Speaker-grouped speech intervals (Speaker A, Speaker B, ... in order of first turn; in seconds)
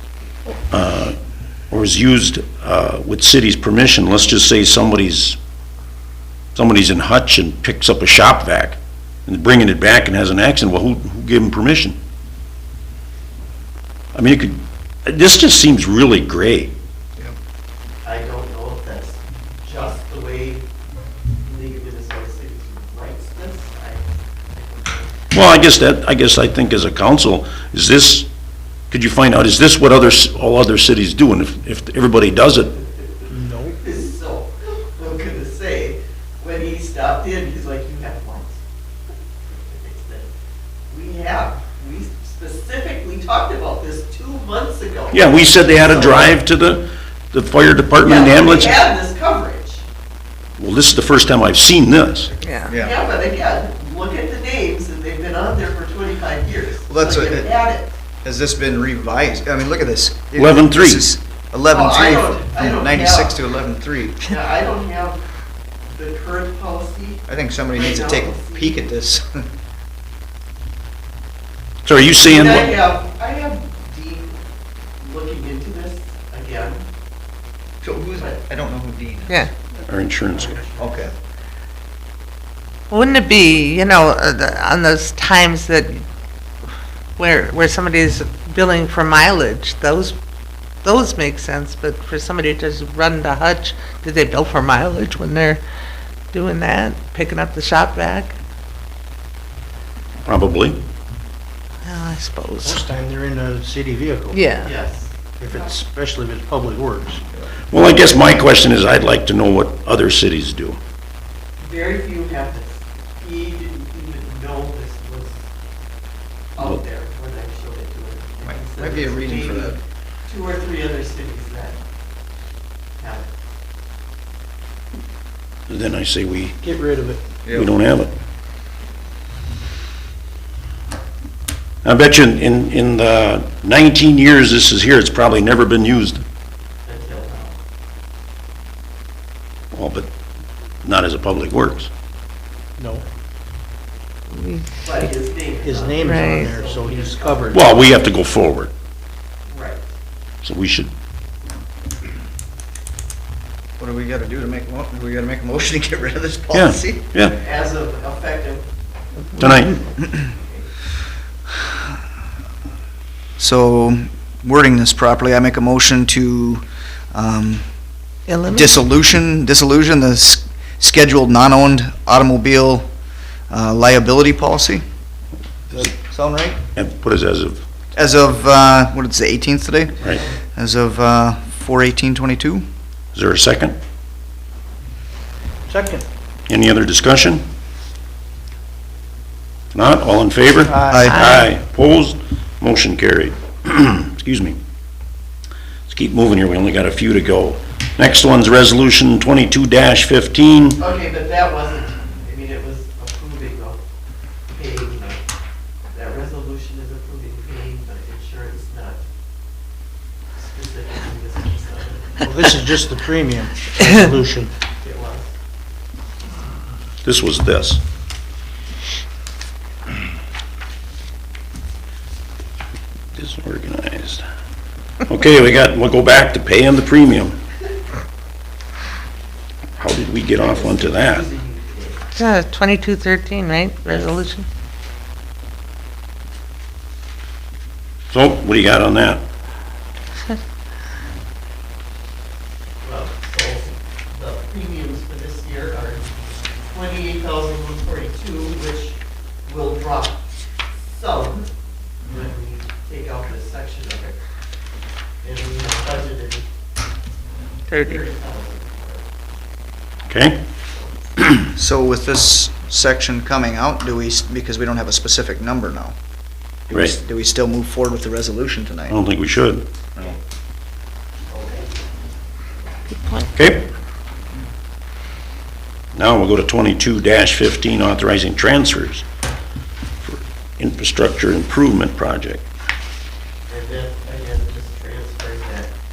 Speaker A: 0.7-1.1, 1.7-5.4, 6.5-12.0, 14.1-16.7, 25.3-28.3, 28.9-32.7, 45.1-48.8, 50.6-52.3, 60.4-61.1, 71.8-72.8, 79.8-80.6, 100.2-100.8, 107.7-110.8, 125.7-126.6, 127.5-128.1, 131.8-136.2, 139.7-140.1, 140.8-141.9, 147.5-148.7, 150.4-150.9, 156.5-157.3, 159.4-159.8, 176.7-177.6, 183.1-183.8, 186.5-187.4, 189.7-194.6, 195.9-200.8, 217.0-217.8, 223.1-224.2, 225.1-227.3, 229.8-231.3, 238.1-239.2, 260.1-260.4, 266.7-266.9, 268.9-269.6, 273.3-273.6, 275.9-279.1, 280.0-282.4
Speaker B: 18.0-20.6, 21.4-25.2, 32.8-33.1, 33.8-38.6, 39.5-40.3, 40.9-46.4, 48.0-49.8, 52.7-58.0, 61.7-63.4, 64.2-65.2, 65.9-67.2, 67.7-68.8, 72.2-74.4, 75.0-76.9, 80.3-81.1, 104.6-105.8, 111.6-115.4, 116.5-121.8, 123.0-123.3, 136.8-137.5, 144.8-147.9, 149.5-149.9, 157.3-158.6, 159.4-160.7, 200.8-203.8, 204.5-205.2, 205.9-209.0, 210.3-212.3, 214.8-215.3, 230.4-232.0, 242.8-246.1, 246.7-250.2, 250.9-251.5, 252.1-254.2, 255.2-256.4, 257.8-259.0, 271.2-271.7, 283.5-285.7
Speaker C: 33.3-33.8, 102.6-104.4, 105.4-107.2, 126.6-127.2, 142.8-143.0, 145.6-147.6, 185.7-186.1, 190.6-191.1, 212.2-214.5
Speaker D: 52.4-52.7, 82.9-86.0, 87.2-90.2, 90.8-95.6, 96.3-98.3, 101.8-102.8, 104.3-104.7, 144.3-145.1, 146.0-146.5, 168.3-168.7, 191.1-191.5, 232.2-234.4, 257.7-258.0
Speaker E: 52.7-52.9, 56.9-57.5, 58.2-64.2, 67.3-69.4, 77.8-79.4, 80.8-81.1, 118.4-119.8, 127.4-127.7, 153.8-157.0, 163.4-167.6, 168.5-172.8, 173.5-174.8, 175.7-176.6, 177.9-182.6, 190.9-191.2, 261.5-265.9, 266.7-269.0